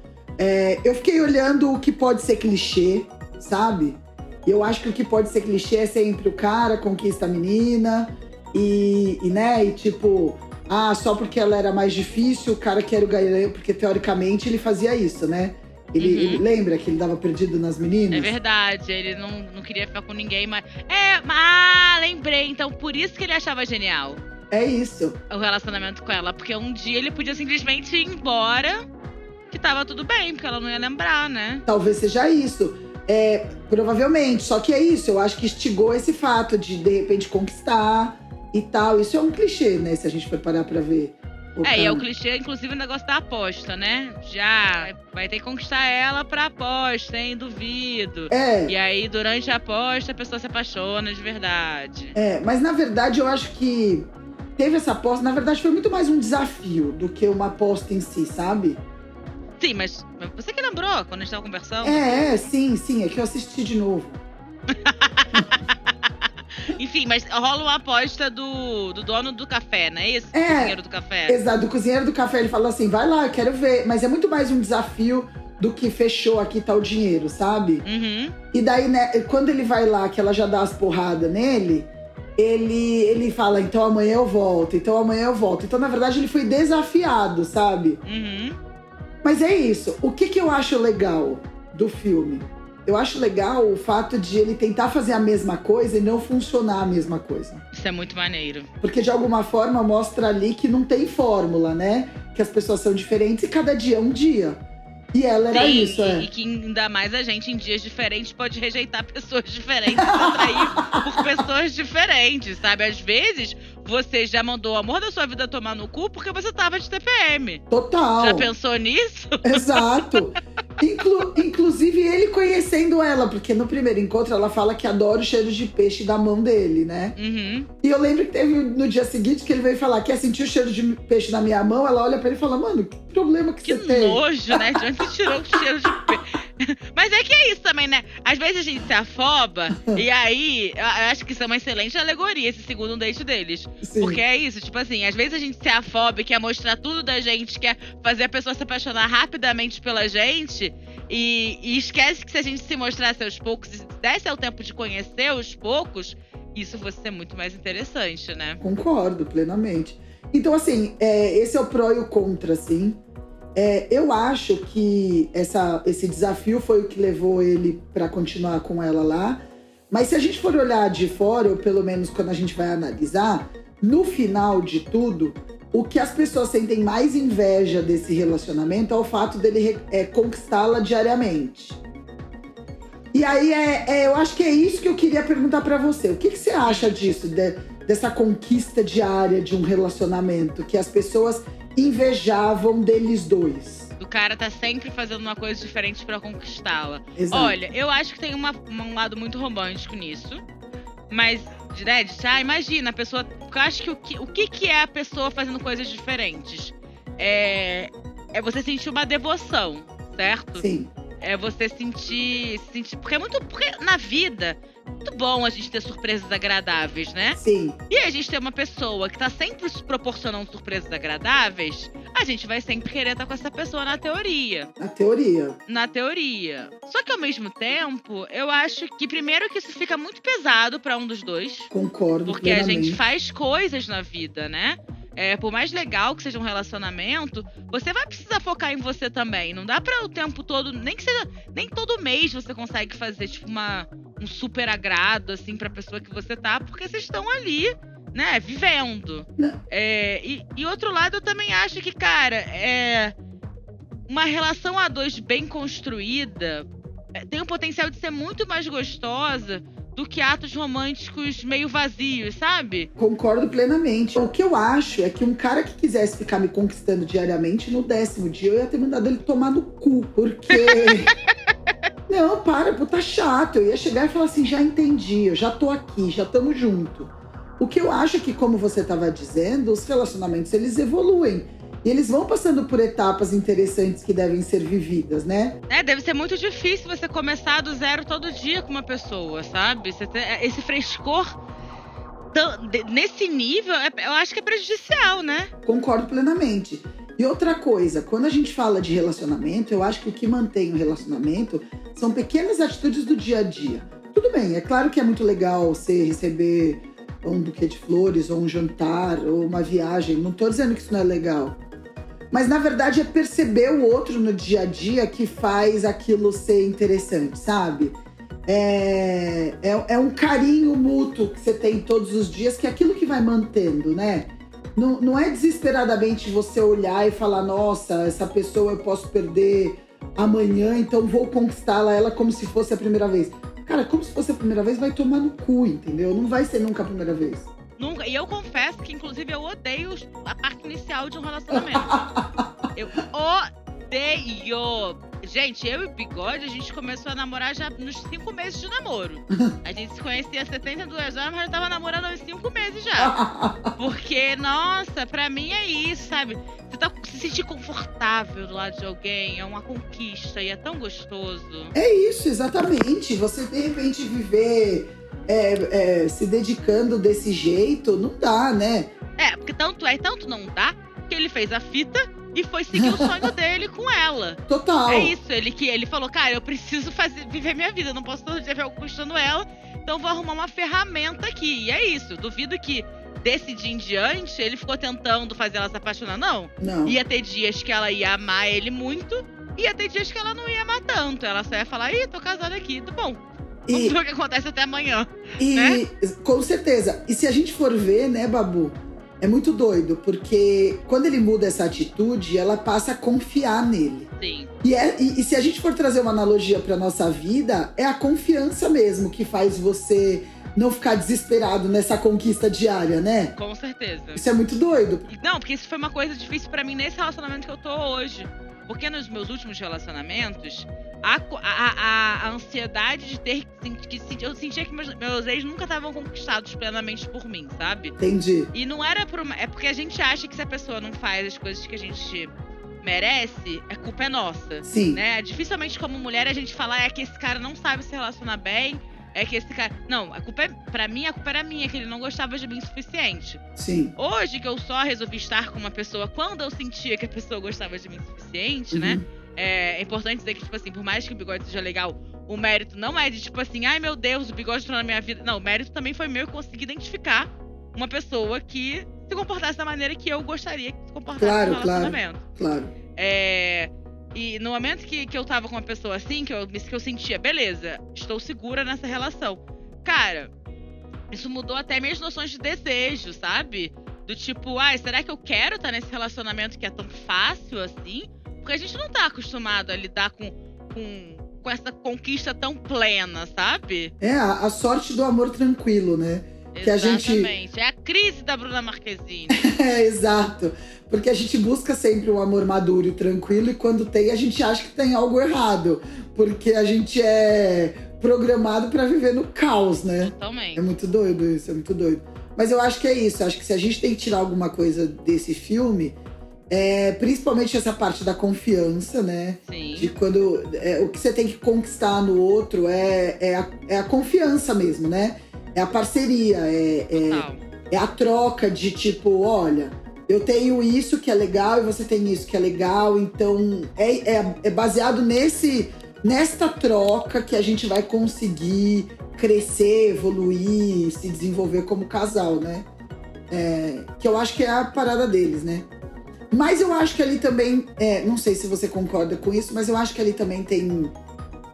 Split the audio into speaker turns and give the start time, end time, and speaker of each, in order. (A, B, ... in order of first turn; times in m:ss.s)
0:00.4-0:18.3 A
0:16.0-0:16.4 B
0:18.1-0:24.2 B
0:24.5-0:25.2 A
0:25.3-0:28.8 B
0:29.5-0:31.6 B
0:31.6-0:42.1 A
0:41.6-0:52.2 B
0:48.3-0:48.8 A
0:52.1-0:58.8 A
0:59.6-1:02.4 B
1:01.8-1:04.2 A
1:04.8-1:05.7 B
1:06.6-1:11.4 B
1:10.3-1:17.8 A
1:17.8-1:18.3 B
1:18.5-1:28.0 A
1:28.0-1:28.6 B
1:29.2-1:37.6 A
1:37.7-1:38.7 B
1:38.8-1:44.6 A
1:45.1-1:46.3 A
1:45.5-1:57.6 B
1:49.9-1:51.2 A
1:57.7-1:58.5 A
1:58.2-2:00.3 B
1:59.4-2:07.2 A
2:07.2-2:07.7 B
2:07.8-2:14.8 A
2:13.6-2:38.6 B
2:23.8-2:24.2 A
2:38.6-2:43.0 A
2:43.6-3:01.8 A
3:03.1-3:13.9 A
3:06.6-3:06.9 B
3:14.0-3:20.4 B
3:17.2-3:17.6 A
3:21.1-3:30.6 B
3:30.6-3:30.9 A
3:31.2-3:37.4 B
3:37.4-3:37.8 A
3:37.9-3:44.7 B
3:44.8-3:45.6 A
3:45.7-3:51.7 B
3:51.7-3:53.0 A
3:52.2-4:13.1 B
4:14.1-4:22.9 B
4:23.0-4:31.1 A
4:30.5-4:31.1 B
4:32.1-4:45.6 A
4:45.7-4:51.4 B
4:52.3-4:55.5 B
4:55.6-5:11.6 A
5:12.3-5:37.5 A
5:37.8-5:42.0 B
5:41.5-5:42.5 A
5:42.7-5:53.2 B
5:53.0-5:53.7 A
5:53.8-6:01.8 B
6:01.7-6:08.9 A
6:09.2-6:35.8 B
6:12.7-6:13.3 A
6:14.5-6:15.1 A
6:26.6-6:27.0 A
6:33.7-6:34.0 A
6:35.4-6:44.1 A
6:44.2-6:44.5 B
6:44.6-6:53.4 A
6:53.4-6:54.2 B
6:54.2-6:55.1 A
6:55.1-7:07.9 B
7:08.0-7:08.5 A
7:08.5-7:12.3 B
7:12.8-7:23.4 B
7:14.6-7:15.0 A
7:23.6-7:23.9 A
7:24.0-7:42.2 B
7:28.7-7:29.0 A
7:41.2-7:42.7 A
7:43.0-7:50.3 B
7:51.1-8:03.9 B
8:04.0-8:07.3 A
8:06.5-8:09.4 B
8:09.4-8:26.0 A
8:20.0-8:20.7 B
8:26.5-8:52.7 A
8:29.5-8:29.9 B
8:37.0-8:37.4 B
8:53.3-8:55.7 A
8:56.3-9:01.0 A